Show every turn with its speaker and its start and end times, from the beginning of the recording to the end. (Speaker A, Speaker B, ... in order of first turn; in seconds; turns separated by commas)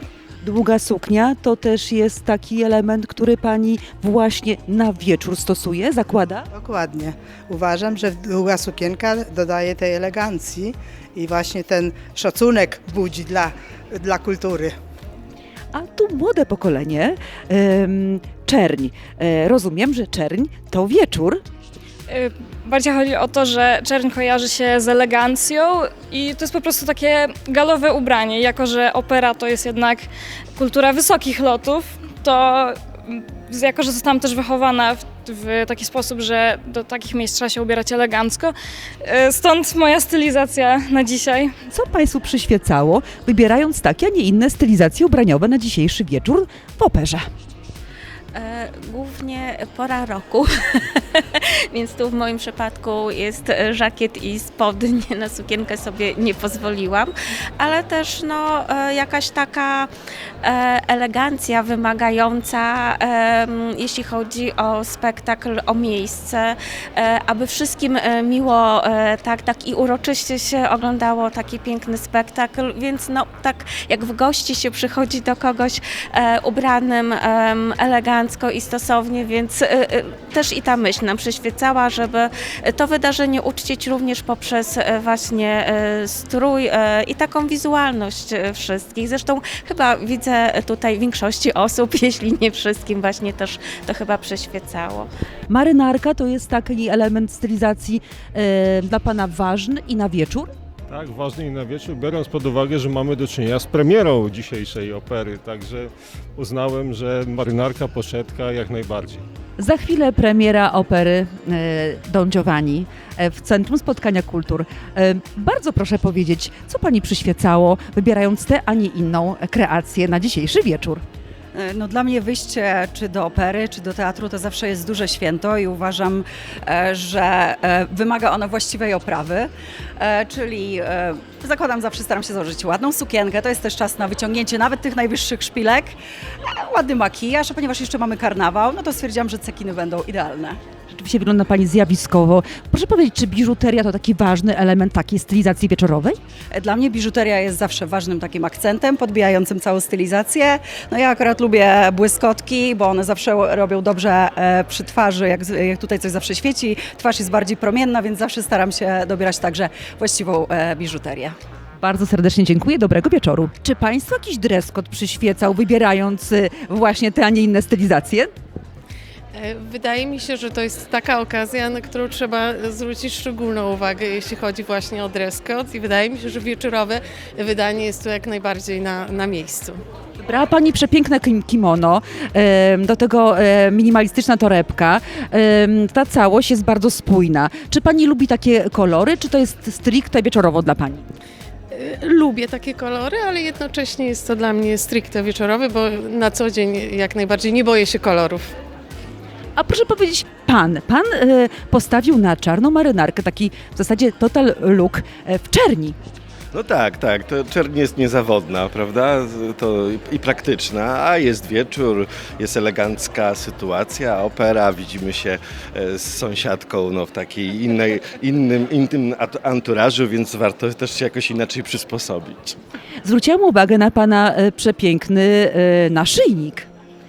Speaker A: 0.4-6.5, Speaker B: 6.5-14.8, Speaker A: 15.7-21.4, Speaker C: 22.1-41.6, Speaker A: 41.7-47.2, Speaker D: 48.3-59.9, Speaker D: 60.4-95.1, Speaker A: 95.5-100.5, Speaker E: 100.9-109.2, Speaker A: 109.6-121.0, Speaker F: 121.5-135.9, Speaker F: 136.4-140.6, Speaker A: 140.9-146.2, Speaker F: 146.5-161.3, Speaker A: 161.8-168.3, Speaker G: 169.3-179.8, Speaker A: 180.2-191.1, Speaker G: 191.7-198.5, Speaker A: 199.6-205.9, Speaker H: 206.5-222.6, Speaker A: 223.0-226.7